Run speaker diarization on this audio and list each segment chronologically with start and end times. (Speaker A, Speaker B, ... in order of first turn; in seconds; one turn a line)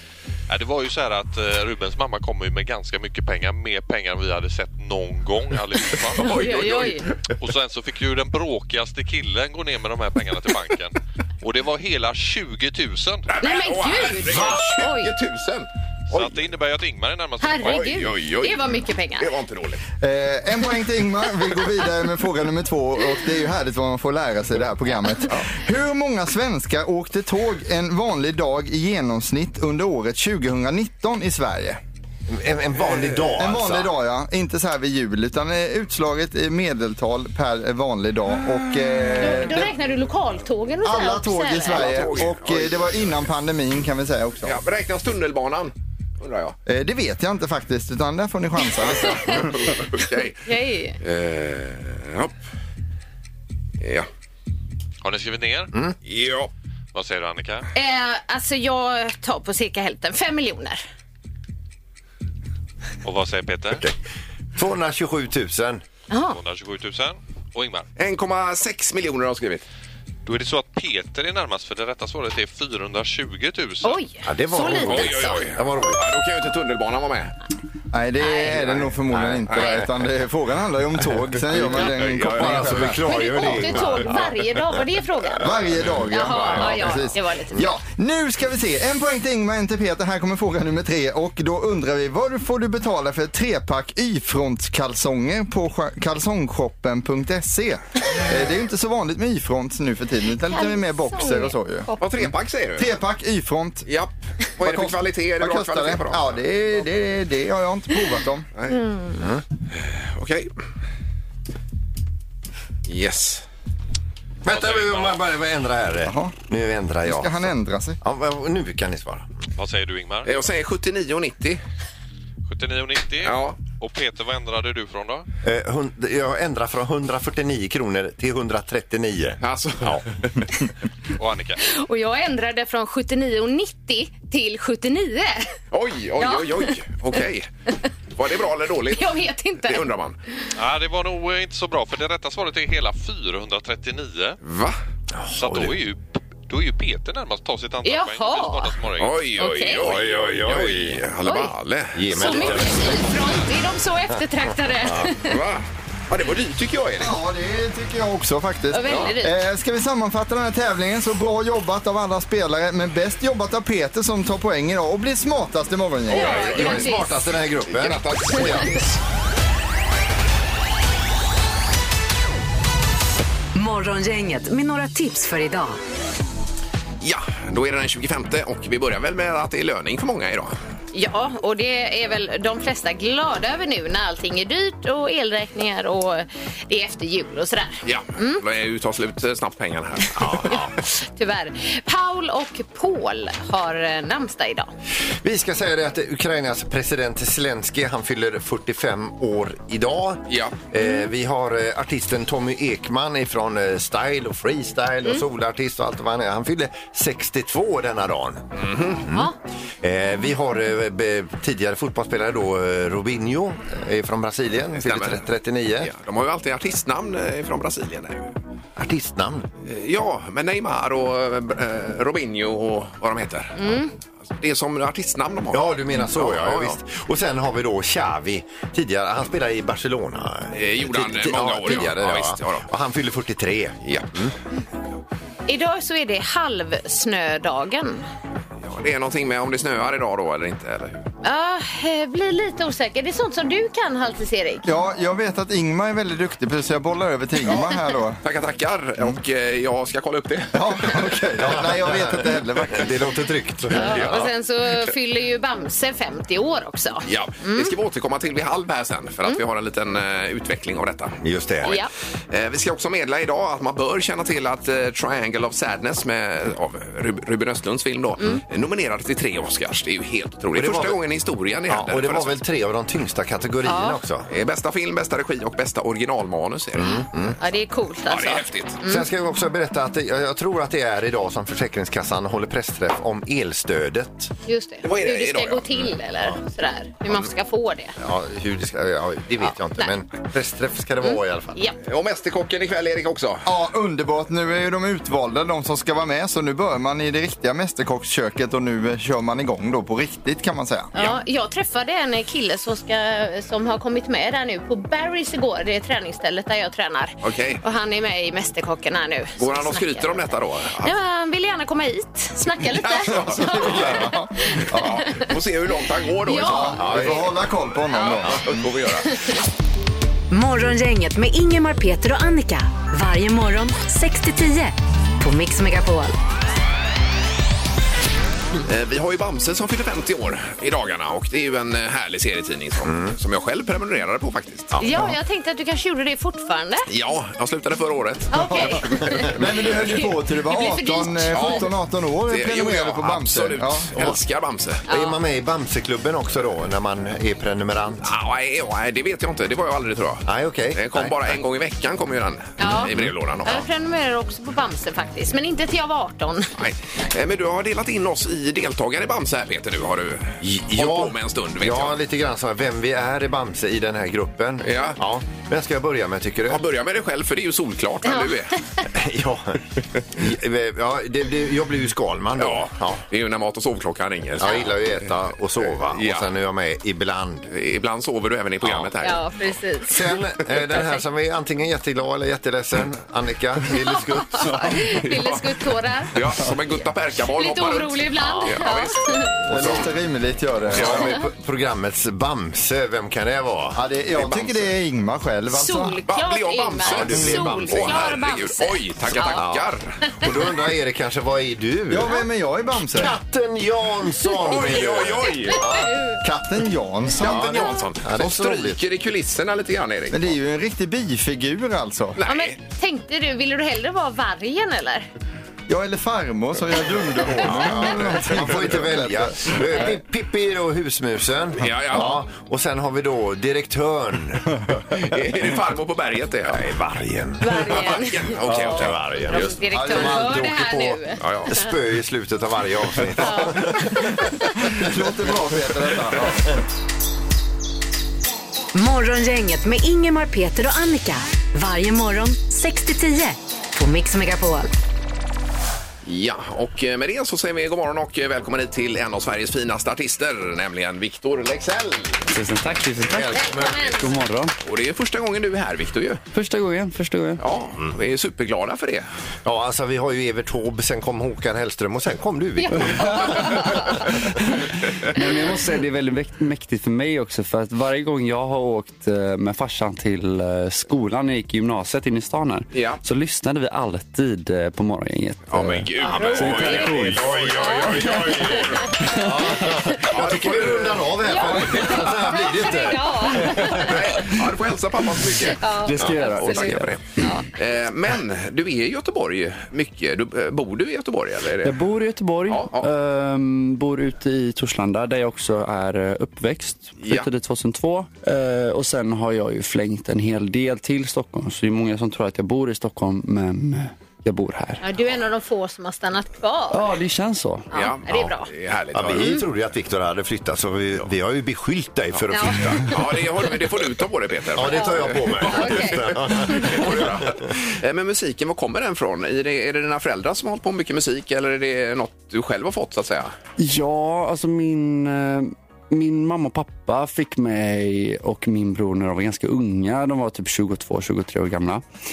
Speaker A: 0.5-6.7
Speaker B: 6.2-7.3
Speaker C: 6.2-7.0
Speaker A: 7.4-13.3
Speaker B: 13.3-16.3
Speaker C: 13.4-15.2
Speaker A: 16.1-17.9
Speaker C: 17.4-19.3
Speaker B: 17.6-19.8
Speaker D: 20.0-31.8
Speaker E: 32.3-33.9
Speaker D: 33.4-39.8
Speaker B: 38.6-39.5
Speaker C: 39.1-42.1
Speaker D: 40.8-44.6
Speaker B: 41.7-43.1
Speaker B: 44.4-46.6
Speaker D: 46.7-49.8
Speaker B: 49.3-50.5
Speaker C: 50.5-51.0
Speaker B: 51.0-52.3
Speaker B: 53.8-54.1
Speaker A: 55.0-55.7
Speaker B: 56.1-56.5
Speaker A: 56.9-57.7
Speaker C: 57.7-60.8
Speaker A: 63.0-63.8
Speaker E: 64.5-65.8
Speaker C: 66.1-66.4
Speaker A: 66.3-67.9
Speaker B: 68.0-69.7
Speaker A: 70.3-74.0
Speaker C: 73.8-75.5
Speaker E: 74.2-76.0
Speaker B: 74.8-77.3
Speaker D: 77.9-83.1
Speaker C: 78.2-78.6
Speaker E: 79.1-79.5
Speaker B: 79.5-79.8
Speaker C: 79.5-79.8
Speaker B: 81.5-84.3
Speaker E: 81.6-84.3
Speaker C: 83.0-85.5
Speaker D: 85.4-103.9
Speaker C: 86.1-87.6
Speaker B: 86.3-86.9
Speaker C: 100.5-102.0
Speaker B: 102.0-102.9
Speaker B: 103.9-106.4
Speaker D: 104.6-108.5
Speaker C: 108.7-109.2
Speaker B: 109.7-110.5
Speaker B: 112.9-113.5
Speaker E: 114.4-117.5
Speaker D: 116.0-116.3
Speaker D: 117.1-118.0
Speaker E: 118.0-119.3
Speaker A: 119.6-120.3
Speaker B: 120.3-121.6
Speaker A: 122.5-125.3
Speaker B: 123.2-123.6
Speaker E: 125.4-130.0
Speaker B: 129.4-130.4
Speaker A: 131.2-131.6
Speaker C: 131.6-135.6
Speaker B: 135.7-137.5
Speaker C: 136.2-136.7
Speaker B: 138.2-140.2
Speaker C: 138.9-139.9
Speaker A: 140.6-144.4
Speaker B: 144.4-144.8
Speaker E: 145.1-145.7
Speaker A: 145.3-149.3
Speaker C: 147.8-148.8
Speaker B: 149.0-152.7
Speaker C: 149.4-149.9
Speaker E: 149.8-151.0
Speaker C: 151.2-151.5
Speaker E: 151.9-153.1
Speaker C: 152.1-155.4
Speaker E: 154.8-155.1
Speaker B: 155.2-157.1
Speaker D: 157.0-166.3
Speaker C: 158.7-159.4
Speaker B: 166.1-166.9
Speaker C: 166.1-167.2
Speaker E: 166.1-168.8
Speaker B: 167.7-169.0
Speaker F: 173.6-175.8
Speaker B: 177.0-180.6
Speaker C: 180.9-188.4
Speaker B: 187.8-190.7
Speaker E: 190.2-190.7
Speaker C: 190.6-194.7
Speaker E: 195.2-215.9
Speaker B: 200.3-200.6
Speaker B: 208.6-209.1
Speaker B: 214.8-215.2
Speaker B: 215.8-218.3
Speaker E: 218.8-219.5
Speaker B: 219.6-226.8
Speaker C: 223.6-223.9
Speaker E: 225.5-234.3
Speaker B: 230.5-232.7
Speaker B: 233.8-234.1
Speaker C: 235.5-238.0
Speaker B: 238.6-241.1
Speaker C: 241.2-244.7
Speaker D: 244.7-248.2
Speaker B: 248.2-251.1
Speaker D: 250.5-253.0
Speaker E: 251.4-254.3
Speaker C: 253.7-257.8
Speaker B: 253.8-254.2
Speaker B: 257.1-272.4
Speaker E: 261.2-261.7
Speaker C: 261.6-261.9
Speaker E: 270.5-271.0
Speaker E: 271.7-274.3
Speaker C: 273.6-274.0
Speaker B: 274.3-277.0
Speaker E: 276.8-277.4
Speaker C: 277.4-279.1
Speaker B: 278.1-278.8
Speaker E: 278.8-284.3
Speaker C: 284.5-287.9
Speaker B: 284.8-285.9
Speaker E: 288.0-291.6
Speaker C: 291.0-291.8
Speaker B: 291.8-293.5
Speaker D: 293.5-300.9
Speaker C: 300.9-315.3
Speaker B: 307.2-307.6
Speaker B: 309.4-310.9
Speaker B: 312.7-314.1
Speaker D: 313.1-315.1
Speaker B: 314.7-317.3
Speaker C: 316.2-317.2
Speaker D: 316.4-318.6
Speaker E: 316.8-317.1
Speaker C: 317.9-318.3
Speaker B: 318.2-319.1
Speaker C: 319.0-319.4
Speaker F: 320.3-326.2
Speaker B: 328.7-334.8
Speaker E: 332.8-333.2
Speaker E: 334.7-335.1
Speaker C: 334.8-336.9
Speaker B: 336.9-338.9
Speaker C: 338.3-341.7
Speaker D: 338.4-344.1
Speaker B: 341.3-341.7
Speaker B: 342.3-344.8
Speaker C: 344.9-345.2
Speaker E: 344.9-348.1
Speaker B: 348.0-353.7
Speaker E: 350.3-351.2
Speaker C: 352.6-352.9
Speaker C: 353.4-356.5
Speaker B: 356.6-362.0
Speaker E: 360.4-366.6
Speaker B: 364.6-365.0
Speaker B: 366.5-368.6
Speaker C: 368.1-368.4
Speaker E: 368.9-373.0
Speaker B: 372.4-374.8
Speaker E: 374.4-377.5
Speaker B: 375.7-376.3
Speaker B: 377.5-379.3
Speaker E: 378.6-378.9
Speaker C: 379.0-380.1
Speaker E: 379.9-384.9
Speaker C: 383.9-386.3
Speaker B: 385.1-385.4
Speaker B: 386.1-389.0
Speaker C: 387.2-389.4
Speaker D: 389.5-391.0
Speaker E: 389.5-389.8
Speaker E: 390.7-394.7
Speaker B: 390.8-391.1
Speaker D: 393.8-396.0
Speaker C: 395.5-399.4
Speaker B: 396.1-400.0
Speaker E: 396.8-398.1
Speaker E: 399.2-402.1
Speaker D: 401.9-403.2
Speaker E: 402.9-405.9
Speaker B: 404.4-405.6
Speaker C: 405.4-406.2
Speaker D: 406.2-407.7
Speaker B: 407.2-410.4
Speaker E: 407.2-408.8
Speaker D: 410.1-412.2
Speaker B: 412.2-412.6
Speaker C: 412.2-415.1
Speaker D: 415.7-419.6
Speaker E: 417.4-425.0
Speaker B: 421.6-422.2
Speaker B: 424.9-426.6
Speaker E: 426.5-434.9
Speaker C: 427.4-431.7
Speaker B: 427.6-429.6
Speaker D: 429.7-430.3
Speaker B: 431.2-431.5
Speaker C: 433.2-434.5
Speaker D: 434.6-436.6
Speaker F: 438.8-444.7
Speaker B: 446.1-452.2
Speaker G: 452.3-454.5
Speaker E: 453.1-453.8
Speaker C: 453.4-454.1
Speaker B: 454.6-456.2
Speaker G: 456.3-457.4
Speaker B: 457.4-459.1
Speaker E: 459.4-464.3
Speaker C: 462.6-463.9
Speaker G: 465.1-479.7
Speaker B: 472.7-473.0
Speaker B: 475.5-478.9
Speaker C: 476.0-479.1
Speaker E: 477.1-484.2
Speaker B: 480.0-481.3
Speaker C: 481.2-484.0
Speaker B: 483.5-491.8
Speaker C: 485.6-487.5
Speaker G: 485.8-487.2
Speaker G: 491.6-504.8
Speaker B: 492.5-492.9
Speaker C: 504.8-506.9
Speaker G: 506.7-507.7
Speaker C: 507.7-508.5
Speaker B: 507.7-509.4
Speaker E: 508.9-513.2
Speaker C: 509.1-509.4
Speaker B: 512.2-523.3
Speaker C: 512.3-512.8
Speaker E: 514.5-517.5
Speaker C: 514.7-516.8
Speaker G: 523.6-531.8